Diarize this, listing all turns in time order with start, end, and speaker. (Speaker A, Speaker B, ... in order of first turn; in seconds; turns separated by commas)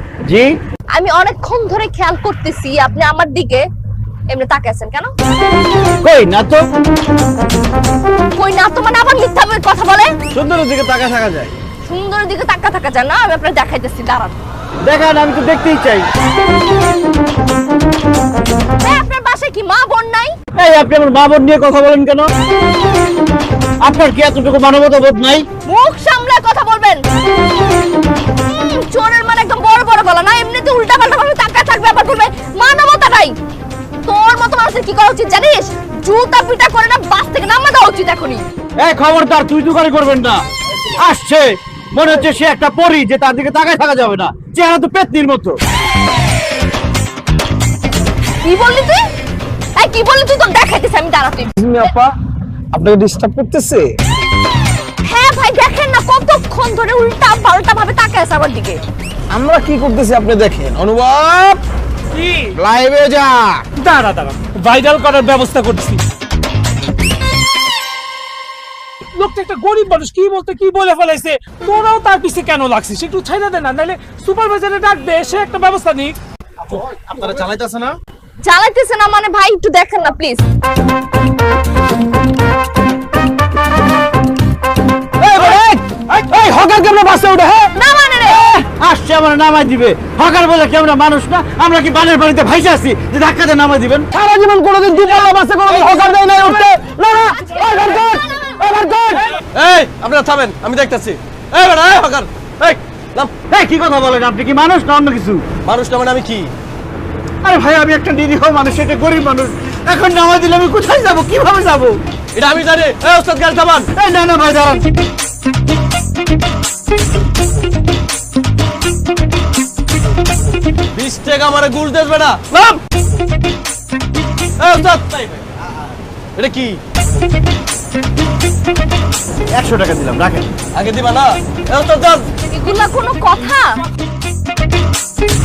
Speaker A: 0.2-0.5, Speaker B: 0.9-3.6, Speaker B: 4.3-5.1, Speaker A: 6.0-6.6, Speaker B: 8.3-10.1, Speaker A: 10.3-11.5, Speaker B: 11.9-14.3, Speaker A: 14.8-16.1, Speaker B: 18.8-20.3, Speaker A: 20.6-22.3, Speaker A: 23.8-25.4, Speaker B: 25.6-27.0, Speaker B: 28.4-33.3, Speaker B: 34.0-38.4, Speaker A: 38.8-40.4, Speaker A: 41.0-45.6, Speaker B: 48.4-49.0, Speaker B: 49.8-51.5, Speaker C: 51.6-52.1, Speaker C: 52.7-53.9, Speaker B: 55.0-58.8, Speaker C: 59.3-61.6, Speaker D: 62.1-62.5, Speaker C: 62.6-63.6, Speaker D: 63.8-66.0, Speaker D: 69.2-76.1, Speaker A: 76.7-77.9, Speaker B: 78.4-80.4, Speaker C: 85.2-87.7, Speaker B: 87.7-88.5, Speaker A: 88.3-94.1, Speaker C: 94.1-99.4, Speaker E: 99.5-103.3, Speaker A: 103.5-105.4, Speaker E: 105.6-106.5, Speaker A: 107.4-112.0, Speaker E: 112.3-113.9, Speaker A: 113.9-114.8, Speaker E: 120.9-122.8, Speaker E: 124.6-125.5, Speaker E: 126.3-126.8, Speaker A: 129.5-130.5, Speaker E: 130.7-132.2, Speaker B: 132.5-133.8